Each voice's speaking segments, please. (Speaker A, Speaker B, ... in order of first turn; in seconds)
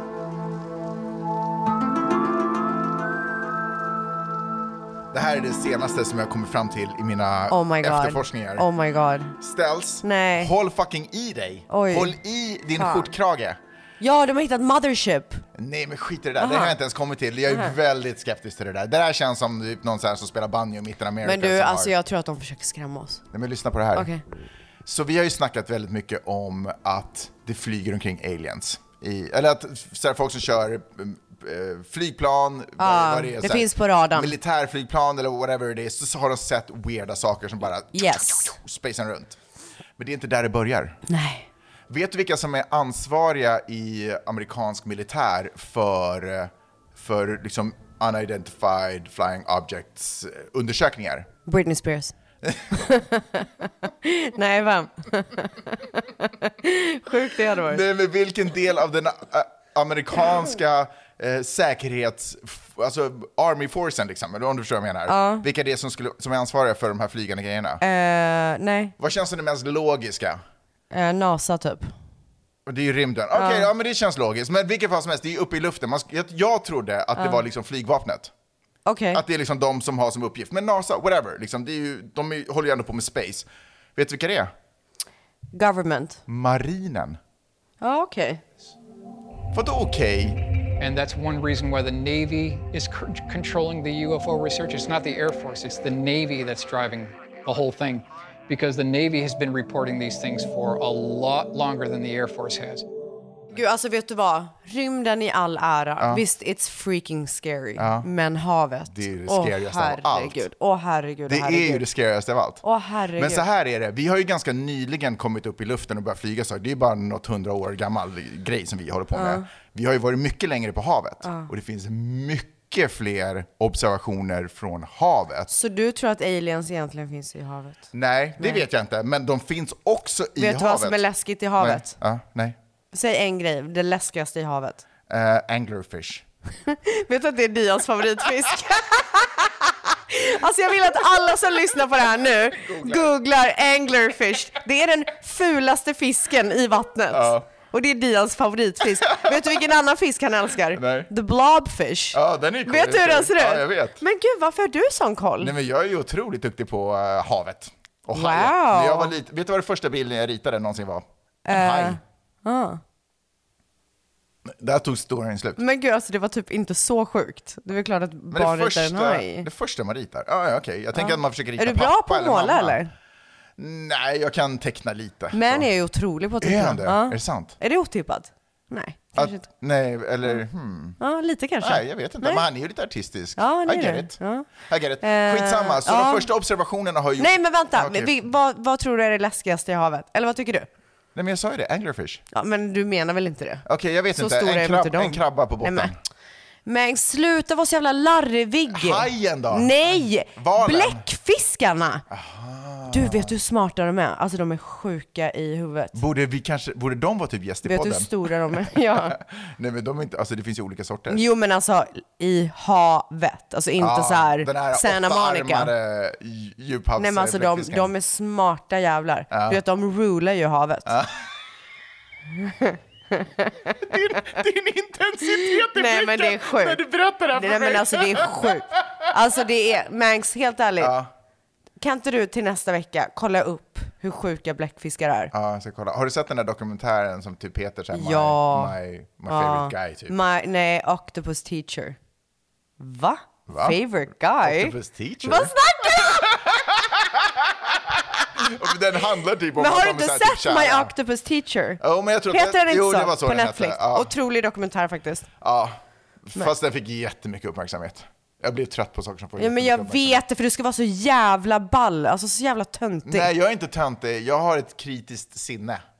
Speaker A: 5.1-8.7, 9.4-13.6, 15.5-21.9, 23.3-24.1, 24.8-39.4, 40.0-41.0, 41.9-51.3, 52.4-52.7, 57.5-67.8, 69.0-70.4, 72.7-78.3, 79.1-84.5, 86.3-87.2, 89.5-90.4, 107.8-108.1, 108.9-110.5, 111.3-112.6, 113.2-125.5, 127.9-131.0, 131.6-132.6, 135.1-136.2, 142.6-143.1, 147.1-147.5, 149.0-149.4, 150.7-151.1, 152.1-154.0, 155.4-162.0, 164.4-165.6, 168.3-172.8, 173.6-175.7, 176.4-177.6, 179.2-181.0, 181.6-188.2, 191.1-192.2, 193.6-196.0, 198.7-201.0, 202.1-203.3, 205.9-211.2, 213.8-217.9, 219.3-219.6, 220.8-221.2, 223.8-228.6, 230.8-231.1, 235.3-240.2, 243.5-243.8, 244.4-250.9, 251.8-254.1, 255.4-260.2, 263.0-265.8
Speaker B: 7.5-9.4, 10.0-10.5, 11.7-12.1, 12.8-13.1, 14.0-15.4, 16.4-16.8, 21.2-23.2, 23.9-24.2, 32.8-34.4, 37.9-38.5, 41.1-41.5, 51.5-52.1, 52.8-57.8, 65.1-65.5, 67.8-68.9, 70.9-71.9, 73.3-73.7, 78.8-79.2, 85.5-86.2, 87.8-88.4, 103.5-111.8, 112.6-113.4, 119.1-119.4, 121.2-121.5, 125.5-127.9, 130.4-131.9, 132.9-134.8, 136.7-155.5, 158.1-159.1, 161.4-162.8, 165.6-169.5, 170.9-172.9, 175.3-179.5, 181.0-182.4, 183.4-184.5, 185.0-186.3, 187.2-190.7, 192.3-195.9, 196.7-202.0, 202.9-205.9, 207.6-209.2, 211.1-215.7, 217.0-220.9, 222.4-224.0, 225.4-230.9, 231.8-235.3, 237.9-238.8, 239.3-242.0, 242.8-246.3, 249.6-255.3, 259.4-263.3
Speaker C: 90.8-102.8